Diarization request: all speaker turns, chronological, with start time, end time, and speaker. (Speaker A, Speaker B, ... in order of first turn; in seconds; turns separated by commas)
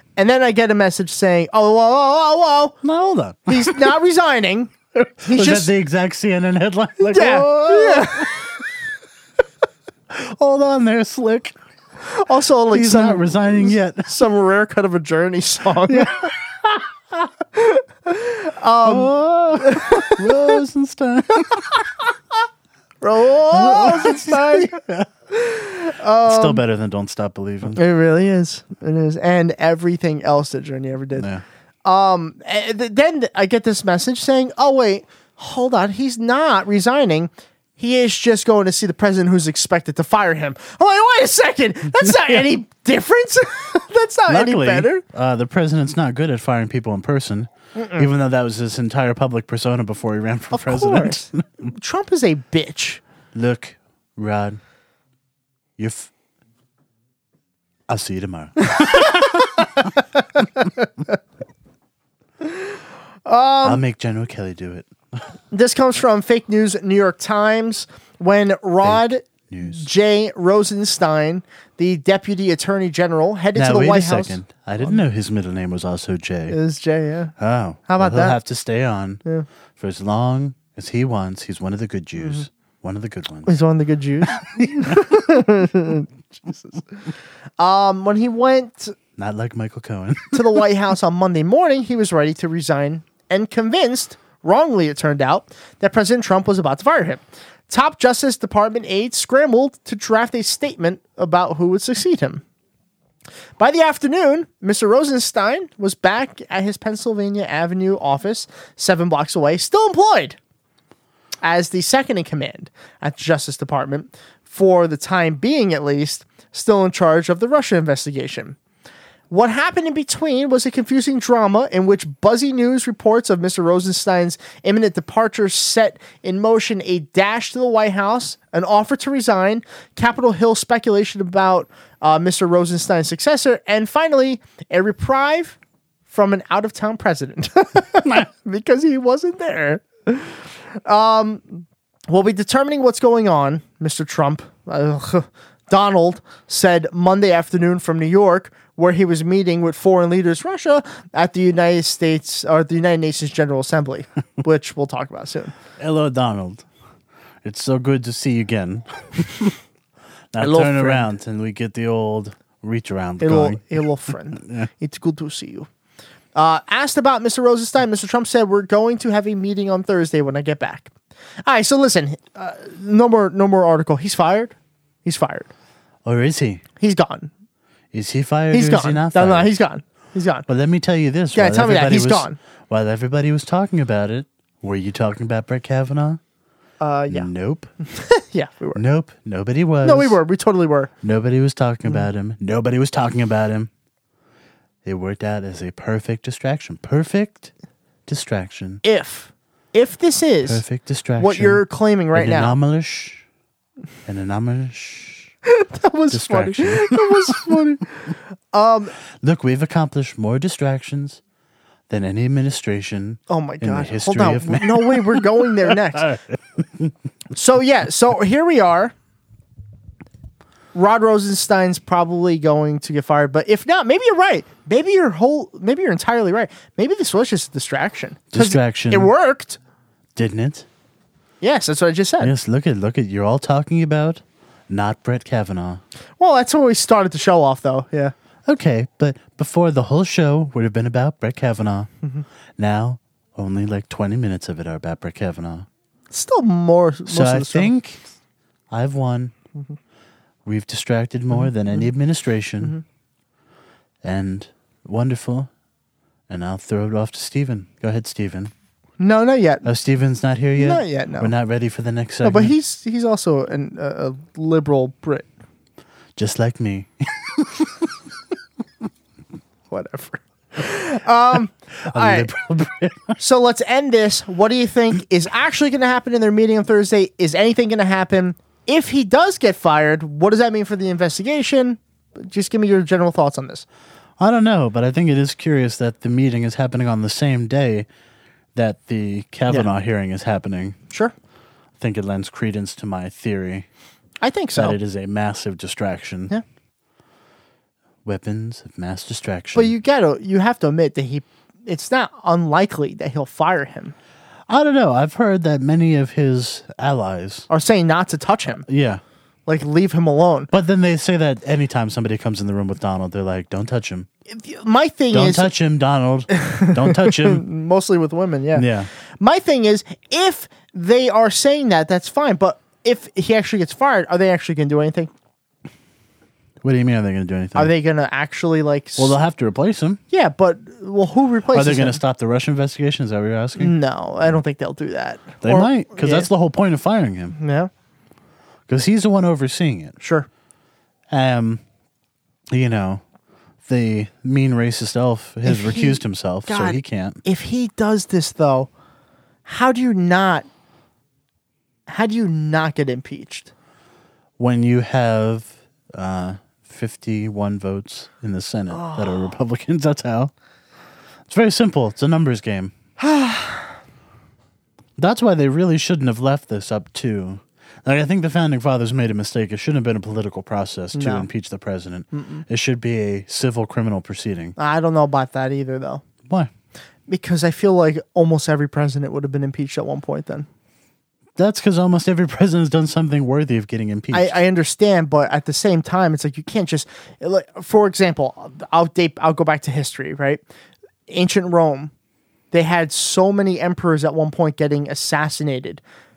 Speaker A: 0.2-2.8, Speaker B: 2.8-3.9, Speaker A: 3.5-5.7, Speaker B: 5.2-8.3, Speaker A: 7.0-8.4, Speaker B: 10.1-11.6, Speaker A: 12.1-16.1, Speaker B: 12.7-14.1, Speaker B: 15.9-16.8, Speaker A: 17.5-20.5, Speaker B: 18.8-21.7, Speaker A: 23.0-24.8, Speaker B: 23.5-25.1, Speaker A: 25.3-26.6, Speaker B: 26.2-27.8, Speaker A: 27.7-31.3, Speaker B: 31.1-31.4, Speaker A: 31.8-45.0, Speaker B: 42.0-42.4, Speaker B: 44.3-51.4, Speaker A: 47.8-48.1, Speaker A: 50.5-53.0, Speaker B: 53.3-54.6, Speaker B: 55.8-56.1, Speaker B: 57.9-59.8, Speaker A: 58.7-59.2, Speaker A: 63.2-63.8, Speaker B: 63.6-65.2, Speaker A: 65.5-75.0, Speaker B: 68.8-69.9, Speaker B: 73.5-76.6, Speaker A: 76.5-77.3, Speaker B: 77.4-79.2, Speaker A: 77.9-78.4, Speaker B: 79.8-83.5, Speaker A: 83.5-87.0, Speaker B: 84.2-85.1, Speaker A: 87.6-88.9, Speaker B: 89.2-90.6, Speaker A: 90.3-102.4, Speaker A: 103.6-110.4, Speaker A: 111.4-118.6, Speaker A: 119.3-135.6, Speaker A: 136.1-155.5, Speaker B: 155.8-156.6, Speaker B: 157.4-159.5, Speaker B: 160.3-163.8, Speaker A: 160.4-161.1, Speaker A: 163.2-165.7, Speaker B: 164.4-164.7, Speaker A: 166.3-170.9, Speaker A: 171.4-175.5, Speaker B: 176.0-176.6, Speaker A: 176.8-177.3, Speaker B: 177.9-179.5, Speaker A: 178.5-180.5, Speaker B: 180.5-186.2, Speaker A: 181.3-182.4, Speaker A: 186.8-187.3, Speaker B: 187.1-187.7, Speaker A: 187.9-188.8, Speaker B: 188.8-190.2, Speaker A: 189.8-190.9, Speaker B: 191.0-193.7, Speaker B: 194.8-197.5, Speaker B: 198.1-198.8, Speaker A: 198.8-200.6, Speaker B: 200.4-203.2, Speaker A: 201.2-202.6, Speaker B: 204.1-205.3, Speaker A: 205.4-208.9, Speaker B: 206.1-207.6, Speaker B: 209.2-211.2, Speaker B: 211.9-216.9, Speaker A: 213.3-216.1, Speaker A: 217.3-218.9, Speaker A: 220.7-229.6, Speaker B: 228.3-229.1, Speaker B: 230.2-230.7, Speaker A: 231.4-232.3, Speaker B: 232.2-235.8, Speaker A: 236.2-238.1, Speaker B: 238.4-241.9, Speaker B: 242.6-245.7, Speaker A: 246.1-247.7, Speaker B: 247.1-248.0, Speaker B: 248.7-249.3, Speaker B: 250.4-252.7, Speaker A: 251.3-251.9, Speaker B: 254.0-255.5, Speaker B: 256.3-258.5, Speaker A: 259.0-259.7, Speaker B: 259.6-262.5, Speaker A: 260.6-261.3, Speaker A: 262.2-265.3, Speaker B: 266.1-267.9, Speaker A: 269.7-272.3, Speaker B: 271.9-273.2, Speaker A: 273.2-283.6, Speaker B: 284.2-287.9, Speaker B: 288.5-290.8, Speaker B: 291.8-293.7, Speaker A: 294.2-294.8, Speaker B: 294.6-296.3, Speaker B: 298.0-299.7, Speaker A: 299.5-303.9, Speaker B: 304.5-307.5, Speaker A: 307.5-308.6, Speaker B: 308.7-309.0, Speaker A: 309.5-310.5, Speaker B: 310.5-314.1, Speaker A: 314.3-315.5, Speaker B: 315.1-317.4, Speaker A: 316.3-318.7, Speaker B: 318.5-318.9, Speaker A: 319.2-325.1, Speaker B: 326.6-327.7, Speaker A: 327.5-329.2, Speaker B: 329.0-330.0, Speaker A: 330.1-332.0, Speaker B: 331.5-333.8, Speaker A: 333.6-336.3, Speaker B: 335.4-337.4, Speaker A: 337.4-337.7, Speaker B: 338.7-339.9, Speaker A: 340.0-340.3, Speaker B: 341.1-341.6, Speaker B: 342.5-343.0, Speaker B: 343.6-347.2, Speaker A: 345.4-348.7, Speaker A: 349.4-350.4, Speaker A: 351.9-353.5, Speaker B: 354.4-360.3, Speaker A: 358.7-359.2, Speaker B: 361.3-362.7, Speaker A: 363.0-363.7, Speaker B: 365.0-374.6, Speaker A: 370.9-371.3, Speaker A: 372.1-372.4, Speaker A: 374.6-376.0, Speaker A: 377.1-380.5, Speaker B: 381.4-384.4, Speaker A: 384.1-390.4, Speaker A: 391.1-391.9, Speaker A: 392.5-395.8